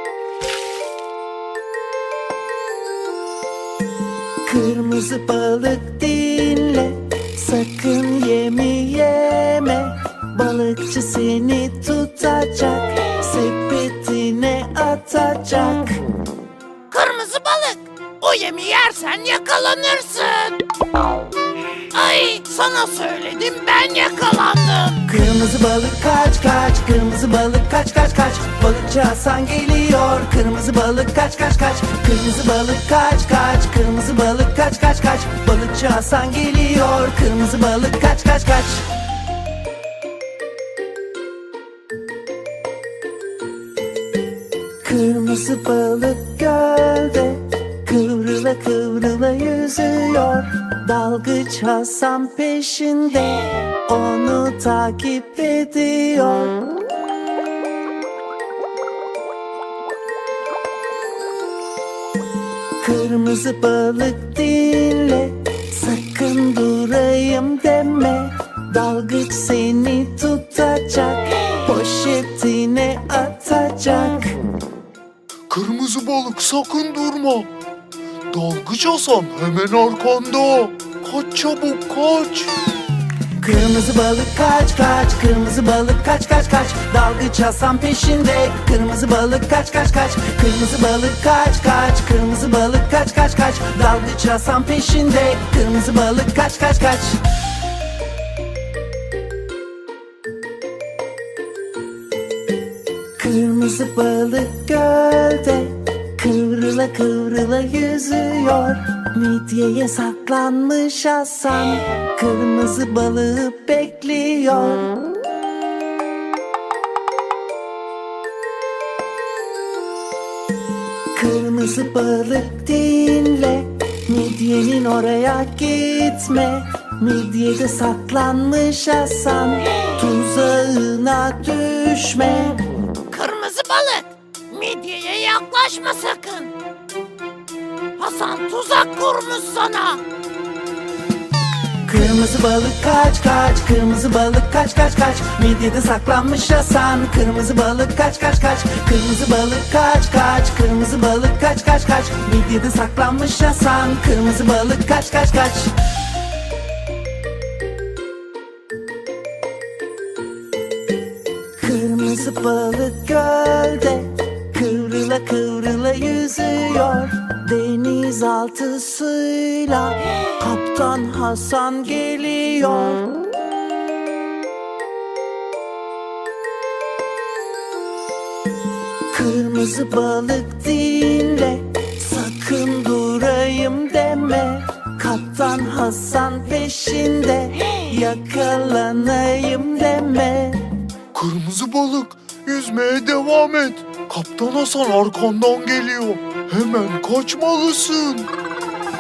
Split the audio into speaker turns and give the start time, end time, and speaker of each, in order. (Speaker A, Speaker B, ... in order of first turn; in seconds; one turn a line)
Speaker A: 4.4-16.0
Speaker B: 16.9-20.6
Speaker B: 21.9-25.0
Speaker A: 25.1-38.9
Speaker A: 44.8-56.6
Speaker A: 62.8-74.4
Speaker C: 75.5-77.5
Speaker C: 78.3-82.6
Speaker A: 83.4-97.2
Speaker A: 103.2-115.0
Speaker A: 121.1-132.6
Speaker B: 133.1-136.5
Speaker B: 138.0-140.0
Speaker A: 141.8-155.8
Speaker A: 161.6-173.1
Speaker A: 179.1-190.7
Speaker C: 191.1-198.3